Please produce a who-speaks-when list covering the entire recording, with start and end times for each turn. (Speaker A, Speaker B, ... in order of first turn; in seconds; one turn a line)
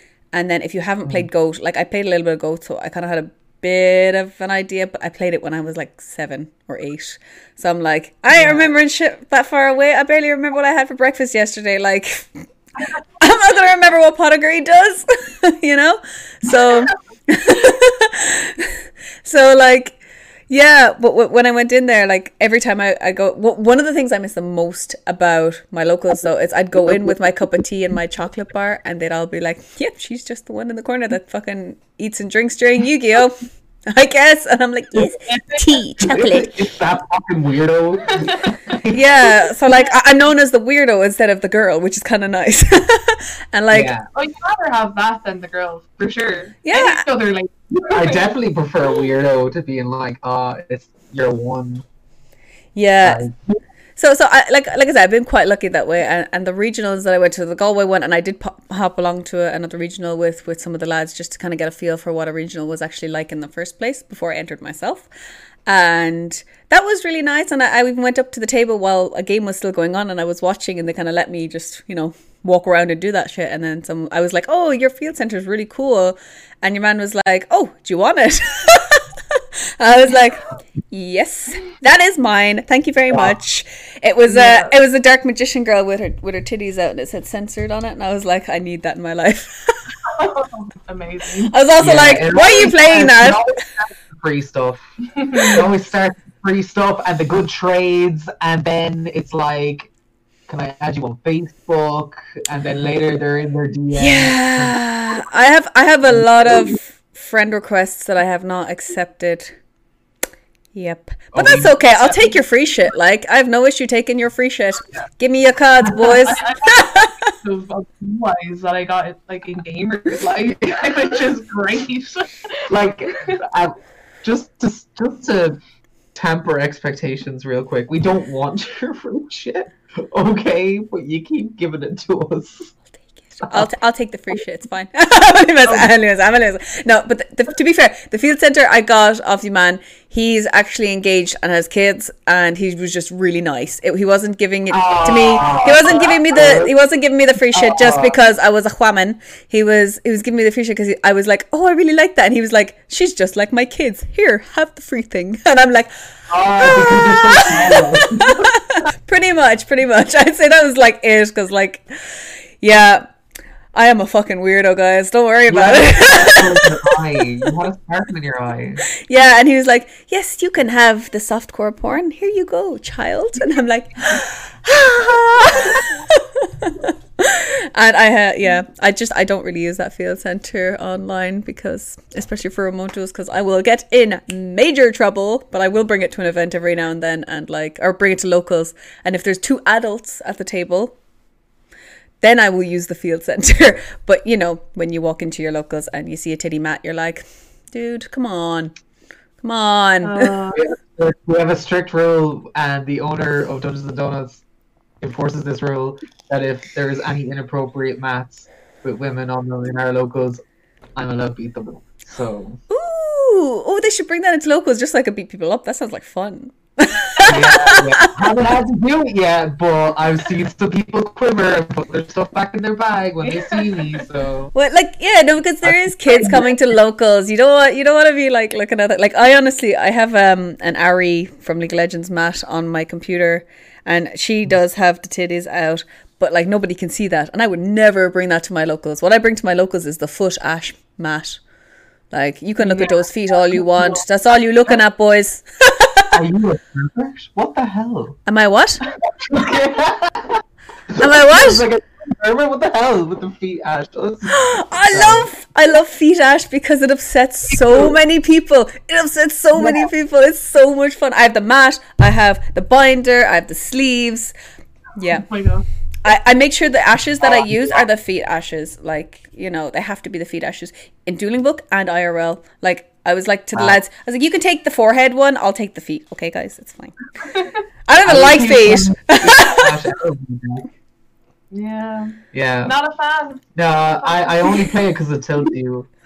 Speaker A: 0.3-12.5
Speaker A: 13.2-36.6
Speaker B: 35.3-35.8
Speaker C: 36.0-39.3
Speaker B: 38.2-38.8
Speaker A: 38.9-43.9
Speaker C: 43.7-44.1
Speaker B: 44.1-48.3
Speaker A: 46.6-47.0
Speaker C: 47.9-51.9
Speaker A: 52.8-53.2
Speaker C: 53.0-53.6
Speaker A: 54.0-65.1
Speaker A: 65.7-89.9
Speaker C: 83.1-83.3
Speaker B: 84.3-84.7
Speaker B: 90.1-91.5
Speaker A: 91.5-93.5
Speaker C: 91.8-99.9
Speaker B: 95.2-95.6
Speaker C: 100.5-104.8
Speaker A: 103.9-109.5
Speaker C: 106.1-106.7
Speaker A: 110.8-117.3
Speaker C: 111.3-111.8
Speaker B: 116.0-123.4
Speaker C: 120.7-121.0
Speaker C: 122.7-125.6
Speaker C: 126.1-132.7
Speaker A: 133.2-155.9
Speaker C: 144.7-146.7
Speaker C: 147.5-148.2
Speaker C: 156.3-158.5
Speaker A: 156.6-163.1
Speaker A: 163.7-167.5
Speaker C: 165.5-168.8
Speaker A: 169.1-191.0
Speaker A: 192.2-198.7
Speaker A: 199.4-200.3
Speaker B: 200.0-200.7
Speaker C: 200.5-204.4
Speaker C: 205.0-210.4
Speaker C: 211.0-212.6
Speaker A: 212.7-218.3
Speaker C: 217.3-224.5
Speaker B: 223.2-224.1
Speaker A: 224.6-241.4
Speaker C: 225.6-226.6
Speaker A: 242.1-246.1
Speaker C: 246.1-248.2
Speaker A: 248.3-248.8
Speaker C: 249.2-255.3
Speaker A: 251.0-251.7
Speaker A: 254.3-264.3
Speaker C: 257.5-257.9
Speaker C: 259.6-259.9
Speaker A: 265.0-265.3
Speaker B: 265.1-265.6
Speaker A: 266.0-277.0
Speaker C: 273.5-273.8
Speaker A: 277.9-279.7
Speaker C: 278.0-280.7
Speaker B: 281.5-284.7
Speaker C: 282.3-282.8
Speaker C: 283.6-285.9